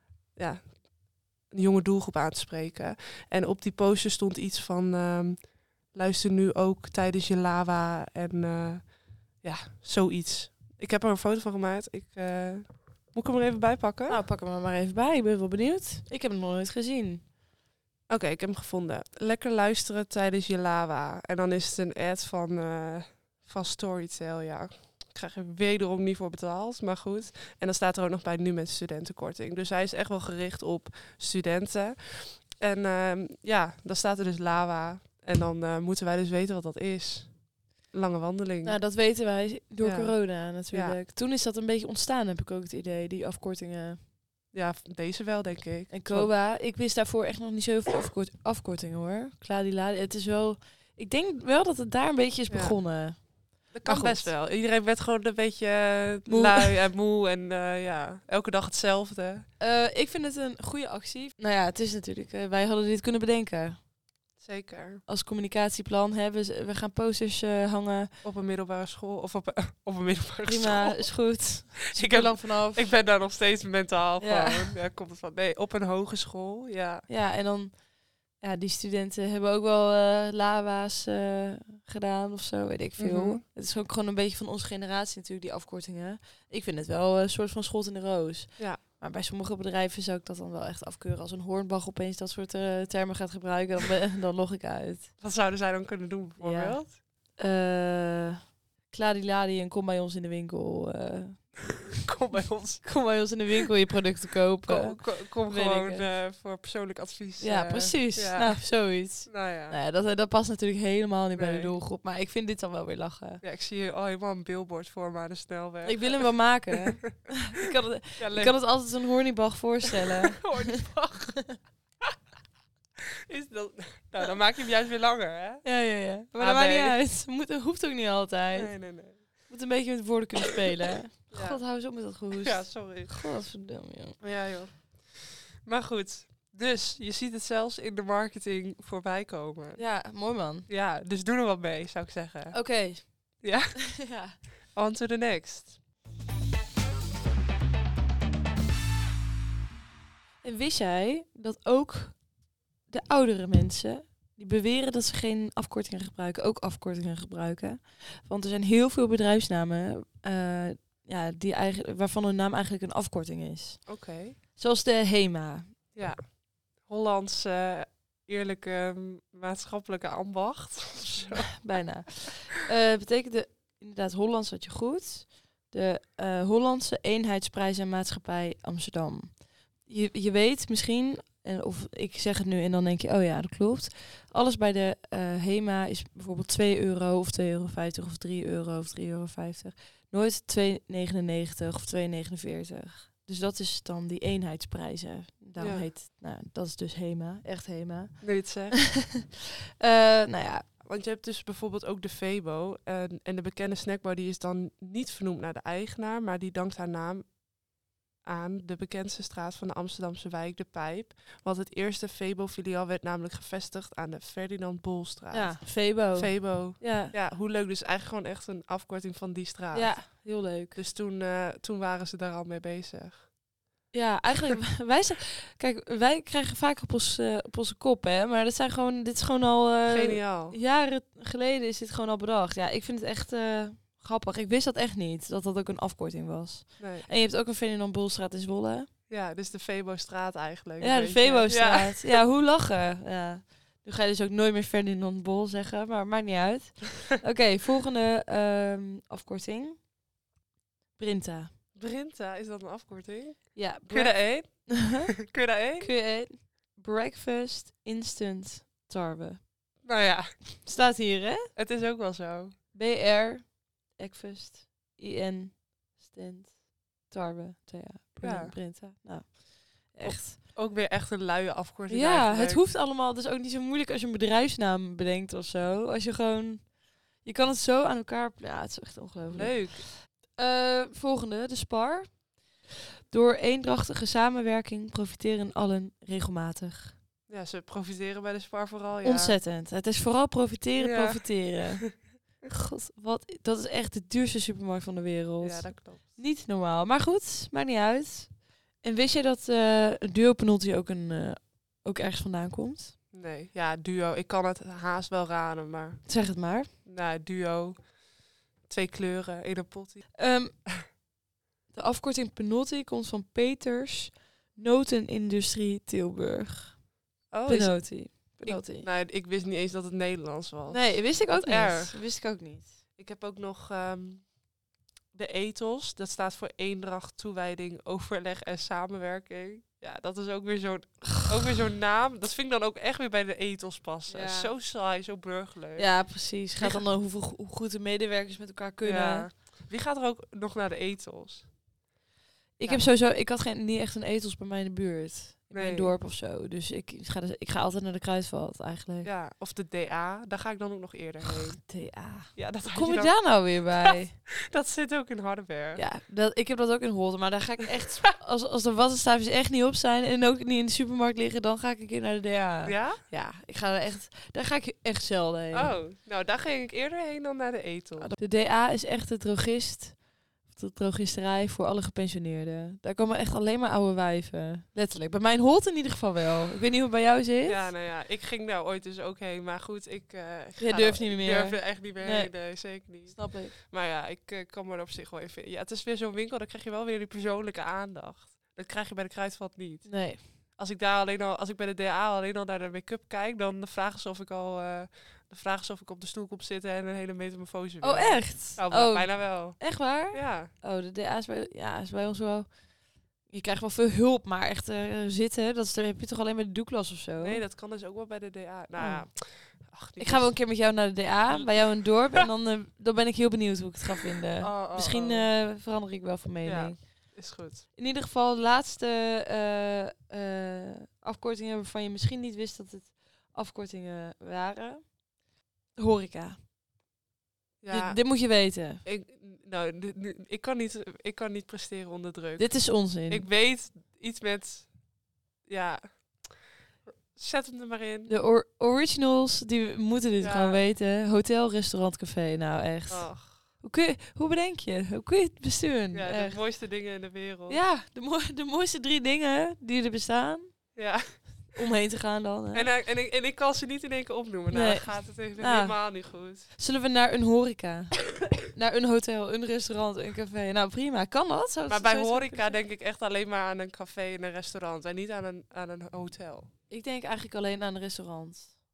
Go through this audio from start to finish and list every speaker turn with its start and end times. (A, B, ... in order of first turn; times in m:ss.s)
0:00.2-0:14.2 A
0:14.1-0:17.2 B
0:18.1-0:38.8 A
0:38.6-0:44.0 B
0:39.8-0:41.0 A
0:44.5-0:46.3 A
0:45.9-0:54.3 B
0:52.5-0:59.5 A
0:56.2-0:56.7 B
0:59.6-1:03.8 B
1:04.4-1:05.0 A
1:05.1-1:08.1 B
1:08.2-1:17.1 A
1:10.4-1:13.0 B
1:14.2-1:14.7 B
1:17.1-1:35.1 B
1:23.0-1:23.4 A
1:35.2-1:37.0 A
1:36.4-1:41.9 B
1:42.0-1:43.1 A
1:42.8-1:46.1 B
1:44.6-1:49.8 A
1:47.4-1:53.4 B
1:51.3-1:51.8 A
1:53.4-1:56.5 A
1:55.8-2:00.7 B
1:58.2-1:58.6 A
2:00.3-2:01.5 A
2:03.3-2:05.8 A
2:05.6-2:14.2 B
2:06.3-2:07.0 A
2:08.5-2:09.5 A
2:11.3-2:11.7 A
2:12.3-2:13.4 A
2:14.2-2:20.0 A
2:19.8-2:20.7 B
2:20.7-2:24.0 A
2:22.5-2:24.4 B
2:24.7-2:25.8 A
2:30.4-2:32.3 B
2:32.8-2:45.8 B
2:43.8-2:44.4 A
2:45.9-2:51.8 A
2:51.6-3:20.7 B
3:15.6-3:15.9 A
3:18.2-3:18.9 A
3:20.8-3:27.6 A
3:28.2-3:43.3 A
3:35.3-3:37.1 B
3:39.7-3:40.8 B
3:43.9-3:58.9 B
3:49.9-3:50.6 A
3:56.8-3:57.1 A
3:59.1-4:02.2 A
4:00.8-4:09.8 B
4:11.0-4:11.5 B
4:11.7-4:15.9 A
4:13.5-4:19.8 B
4:19.8-4:20.6 A
4:20.6-4:21.5 B
4:21.5-4:22.5 A
4:22.7-4:30.4 B
4:28.2-4:28.6 A
4:30.0-4:32.6 A
4:31.9-4:47.0 B
4:39.3-4:39.9 A
4:47.3-4:49.4 A
4:49.0-5:03.0 B
4:50.8-4:51.9 A
4:55.4-4:56.2 A
5:03.1-5:08.0 A
5:06.1-5:06.7 B
5:08.6-5:10.2 A
5:10.2-5:11.0 B
5:11.7-5:16.8 B
5:17.3-5:22.1 A
5:17.4-5:18.9 B
5:20.7-5:22.8 B
5:23.0-5:24.5 A
5:25.1-5:36.8 A
5:34.1-5:34.5 B
5:35.8-5:39.3 B
5:38.8-5:41.6 A
5:42.6-5:49.1 B
5:42.6-5:42.9 A
5:45.5-5:45.9 A
5:49.0-5:51.6 A
5:51.6-5:54.2 B
5:52.3-5:55.8 A
5:55.7-6:05.8 B
6:02.6-6:03.0 A
6:05.5-6:08.1 A
6:08.0-6:17.7 B
6:17.4-6:40.5 A
6:20.6-6:23.5 B
6:29.8-6:30.2 B
6:37.8-6:47.4 B
6:47.2-6:50.4 A
6:48.8-7:05.0 B
6:51.3-6:52.2 A
6:54.4-6:55.3 A
6:56.4-6:57.6 A
7:05.7-7:06.4 B
7:07.6-7:16.5 A
7:07.7-7:08.8 B
7:12.4-7:13.3 B
7:17.0-7:18.1 A
7:18.1-7:26.4 B
7:20.2-7:20.6 A
7:22.9-7:23.5 A
7:25.9-7:27.6 A
7:27.5-7:30.8 B
7:30.7-7:31.5 A
7:31.5-7:32.7 B
7:32.5-7:36.5 A
7:34.5-7:42.6 B
7:41.7-7:46.5 A
7:46.7-7:48.6 B